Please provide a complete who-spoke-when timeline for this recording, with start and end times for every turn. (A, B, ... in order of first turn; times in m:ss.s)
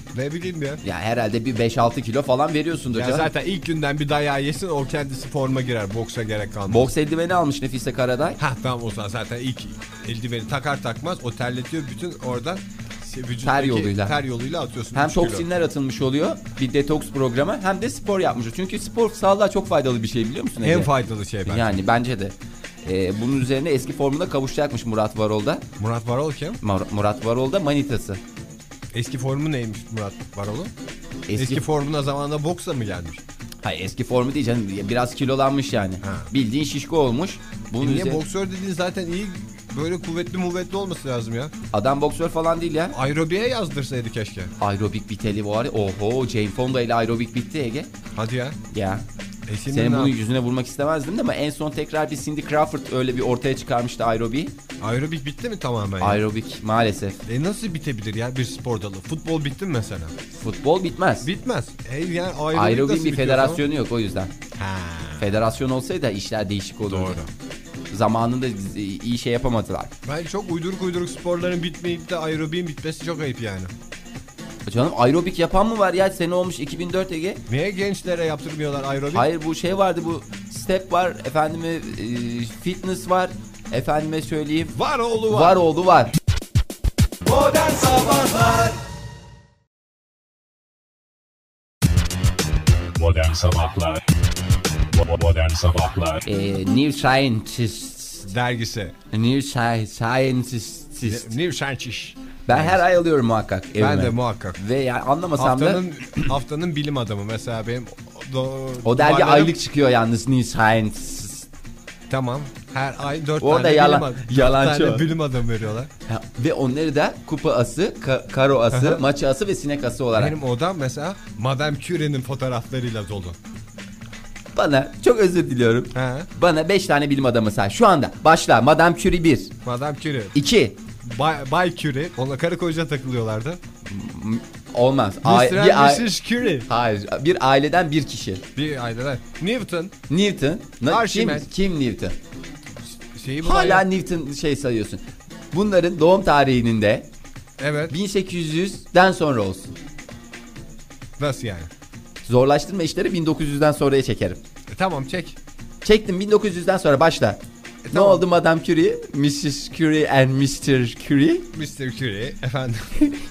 0:00.1-0:00.8 A
0:00.8-0:03.3 B
0:02.9-0:06.9 A
0:06.7-0:08.4 B
0:08.4-0:15.4 A
0:13.4-0:14.2 B
0:14.9-0:20.9 B
0:20.6-0:21.8 A
0:21.4-0:25.6 B
0:25.8-0:26.6 A
0:26.6-0:28.2 B
0:28.9-0:30.7 A
0:31.3-0:31.6 B
0:31.4-0:33.2 A
0:33.6-0:38.2 B
0:36.0-0:36.3 A
0:37.8-0:41.5 A
0:41.7-0:43.0 B
0:42.9-0:44.5 A
0:44.6-0:47.9 B
0:48.1-0:48.6 A
0:48.7-0:49.0 B
0:49.5-0:50.1 A
0:49.7-0:54.5 B
0:54.8-0:56.2 A
0:56.0-0:57.2 B
0:57.2-1:00.1 A
1:00.3-1:01.3 B
1:01.2-1:03.6 A
1:02.5-1:04.3 B
1:04.5-1:05.3 A
1:05.2-1:07.2 B
1:06.9-1:07.3 A
1:07.9-1:09.9 B
1:10.0-1:13.7 A
1:14.6-1:17.4 B
1:17.5-1:19.3 A
1:19.1-1:26.1 B
1:24.7-1:25.6 A
1:27.7-1:28.4 B
1:32.9-1:34.0 C
1:34.8-1:36.2 C
1:36.2-1:38.3 B
1:38.3-1:38.9 A
1:39.1-1:41.3 B
1:41.0-1:42.8 A
1:42.5-1:46.3 B
1:43.8-1:44.6 A
1:45.4-1:49.6 A
1:48.8-1:51.5 B
1:52.1-1:55.9 A
1:53.4-1:55.1 B
1:56.1-2:00.4 B
1:58.7-1:59.0 A
2:00.1-2:03.4 A
2:04.5-2:09.6 B
2:05.9-2:06.3 A
2:09.6-2:10.3 A
2:10.3-2:10.8 B
2:11.0-2:13.6 A
2:13.8-2:16.1 B
2:15.2-2:16.7 A
2:16.6-2:18.4 B
2:18.5-2:19.9 A
2:20.1-2:22.2 B
2:20.9-2:21.5 A
2:22.9-2:23.8 A
2:23.4-2:27.1 B
2:27.6-2:27.9 A
2:27.9-2:29.7 B
2:31.2-2:31.7 A
2:32.2-2:34.4 B
2:34.7-2:35.4 A
2:35.8-2:41.5 B
2:37.8-2:38.2 A
2:41.5-2:43.0 A